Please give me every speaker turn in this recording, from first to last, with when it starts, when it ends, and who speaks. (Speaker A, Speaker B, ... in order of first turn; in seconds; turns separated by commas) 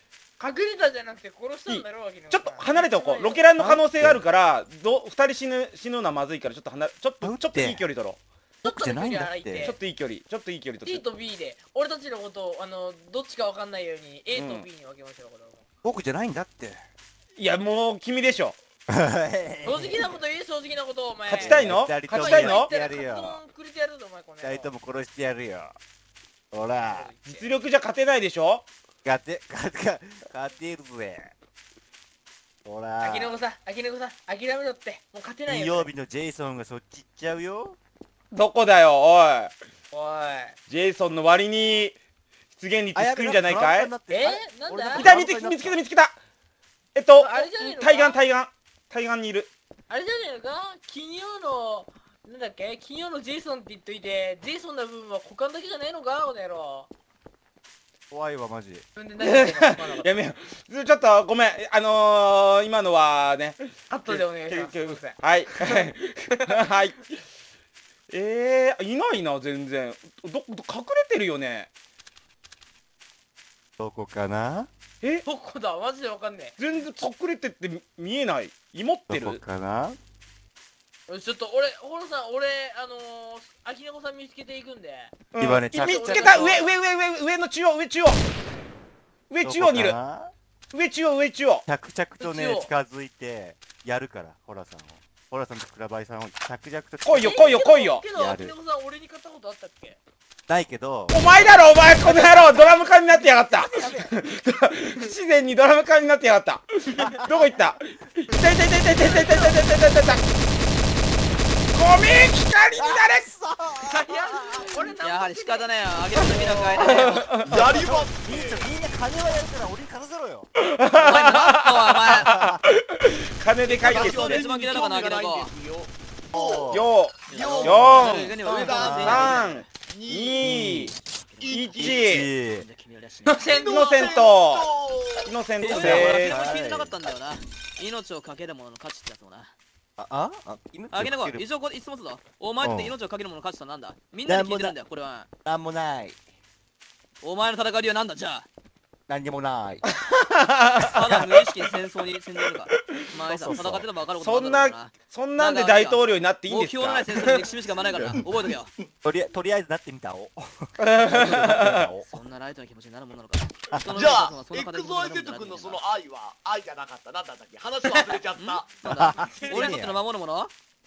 Speaker A: 0.4-3.5, Speaker B: 1.7-8.2, Speaker C: 3.6-4.2, Speaker C: 7.2-7.8, Speaker C: 8.6-9.7, Speaker A: 8.6-9.8, Speaker B: 9.6-11.0, Speaker A: 10.8-15.6, Speaker B: 14.3-14.7, Speaker C: 15.8-16.8, Speaker B: 17.4-18.6, Speaker C: 18.9-20.1, Speaker A: 19.6-24.7, Speaker B: 21.3-22.7, Speaker C: 21.4-23.4, Speaker C: 24.4-25.7, Speaker C: 26.5-27.1, Speaker A: 26.8-27.4, Speaker B: 27.2-28.6, Speaker C: 29.0-31.3, Speaker C: 32.6-33.4, Speaker A: 33.0-35.9, Speaker C: 35.5-37.8, Speaker B: 38.3-39.5, Speaker A: 39.9-40.5, Speaker B: 40.7-42.0, Speaker B: 42.5-43.9, Speaker C: 42.9-45.8, Speaker A: 44.1-45.1, Speaker B: 44.9-46.2, Speaker B: 46.9-49.5, Speaker A: 47.1-48.2, Speaker A: 49.9-56.9, Speaker C: 58.1-58.8, Speaker A: 59.0-60.1, Speaker B: 59.2-67.0, Speaker A: 63.9-66.6, Speaker B: 68.1-71.7, Speaker C: 73.8-74.7, Speaker A: 75.2-76.5, Speaker B: 76.6-79.4, Speaker C: 79.1-80.0, Speaker A: 81.1-86.7, Speaker B: 85.3-88.2, Speaker C: 85.4-86.6, Speaker B: 89.3-90.0, Speaker C: 89.4-90.3, Speaker B: 90.7-91.6, Speaker C: 91.7-98.5, Speaker A: 92.2-92.7, Speaker B: 97.0-98.0, Speaker A: 97.2-100.0, Speaker C: 100.5-101.2, Speaker B: 101.1-110.2, Speaker C: 103.5-104.1, Speaker C: 107.0-107.3, Speaker A: 109.0-109.6, Speaker B: 111.7-113.3, Speaker C: 112.8-114.9, Speaker A: 113.8-117.0, Speaker D: 115.0-117.3, Speaker B: 116.1-117.8, Speaker C: 117.4-120.5, Speaker E: 117.4-118.7, Speaker B: 120.5-124.5, Speaker D: 120.9-122.3, Speaker C: 122.2-122.6, Speaker E: 123.7-126.8, Speaker D: 123.8-125.5, Speaker C: 126.3-129.3, Speaker B: 126.7-128.4, Speaker D: 127.3-129.7, Speaker E: 127.3-130.4, Speaker B: 129.0-130.9, Speaker C: 130.4-131.0, Speaker D: 131.3-131.6, Speaker E: 131.4-132.0, Speaker B: 131.5-132.3, Speaker C: 131.8-132.6, Speaker D: 132.6-133.4, Speaker A: 133.2-134.2, Speaker E: 133.5-135.3, Speaker B: 133.7-134.7, Speaker B: 135.2-136.4, Speaker D: 135.6-139.5, Speaker C: 135.6-136.9, Speaker C: 140.0-141.4, Speaker D: 140.9-145.3, Speaker C: 142.6-142.9, Speaker C: 144.2-144.7, Speaker C: 145.4-146.2, Speaker D: 147.2-148.4, Speaker C: 149.1-149.9, Speaker B: 149.9-151.6, Speaker D: 150.9-158.7, Speaker C: 151.0-151.2, Speaker C: 153.3-153.9, Speaker B: 154.2-157.5, Speaker C: 158.0-158.2, Speaker C: 159.0-162.1, Speaker B: 160.8-161.9, Speaker D: 162.1-165.8, Speaker E: 163.9-168.7, Speaker D: 168.4-170.5, Speaker C: 168.9-170.0, Speaker E: 169.3-169.8